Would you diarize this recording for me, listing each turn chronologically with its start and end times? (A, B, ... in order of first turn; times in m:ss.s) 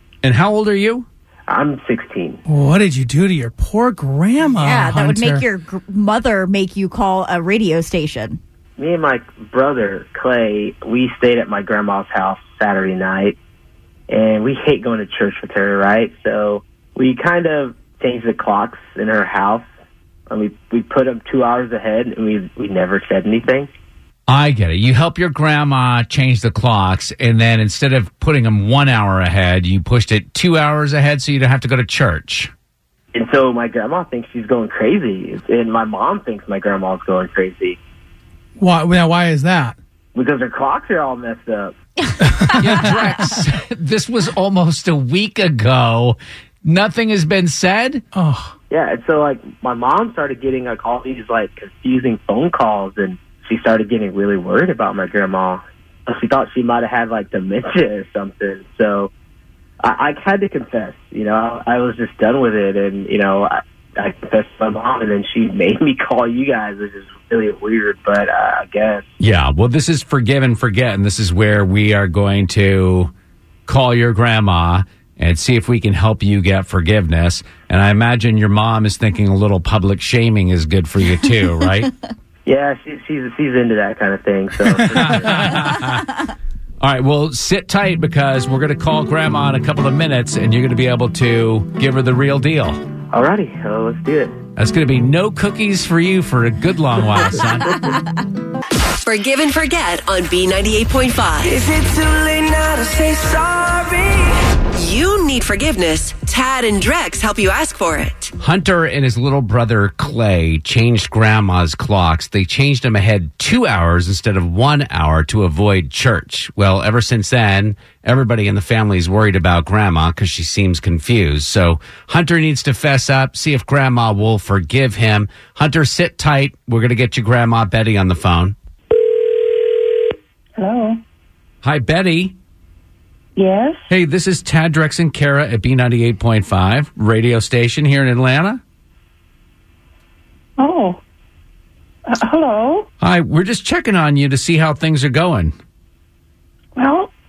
0:00.2-0:01.0 A
0:01.5-0:02.4 B
0:02.4-0:05.5 C
0:04.4-0:08.4 D
0:08.8-0:13.4 B
0:14.1-0:19.6 B
0:20.3-0:23.7 B
0:24.3-0:32.5 A
0:33.1-0:37.8 B
0:38.6-0:39.8 C
0:40.1-0:41.7 B
0:42.5-0:48.0 A
0:48.1-0:48.5 C
0:48.7-0:59.1 B
0:59.8-1:09.0 B
1:09.2-1:13.1 A
1:13.7-1:21.9 A
1:22.4-1:25.6 B
1:24.9-1:26.2 A
1:26.8-1:32.8 A
1:33.1-1:34.4 B
1:34.6-1:37.9 A
1:39.0-1:41.6 E
1:41.5-1:44.2 F
1:44.7-1:48.3 E
1:48.4-2:08.6 A
2:10.6-2:11.0 G
2:11.6-2:12.3 A
2:13.4-2:13.8 G
2:13.9-2:18.6 A
2:20.6-2:21.0 G
2:22.1-2:22.9 G
2:23.0-2:25.5 A
2:26.8-2:27.1 G